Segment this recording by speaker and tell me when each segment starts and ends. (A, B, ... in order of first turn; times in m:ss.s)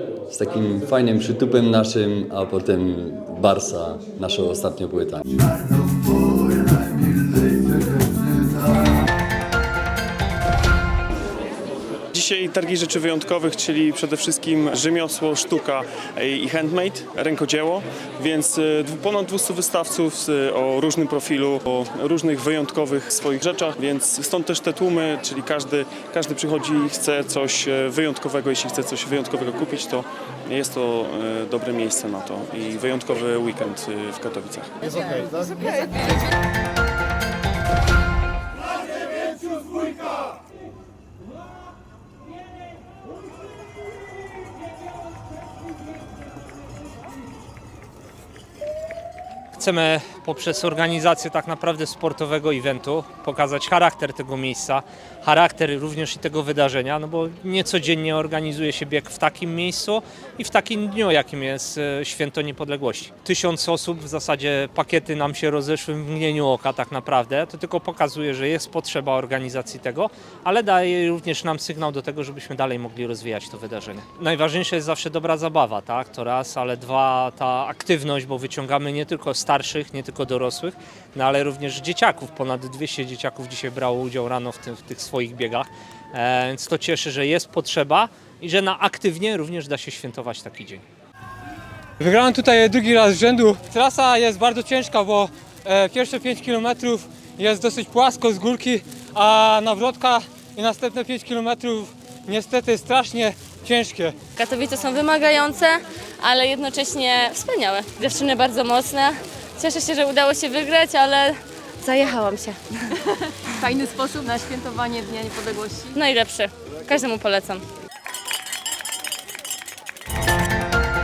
0:00.3-0:05.2 A
0:12.1-0:34.7 B
0:49.5-1:30.8 C
1:32.0-1:44.2 D
1:44.4-1:52.6 E
1:53.7-1:55.9 F
1:55.9-1:57.6 E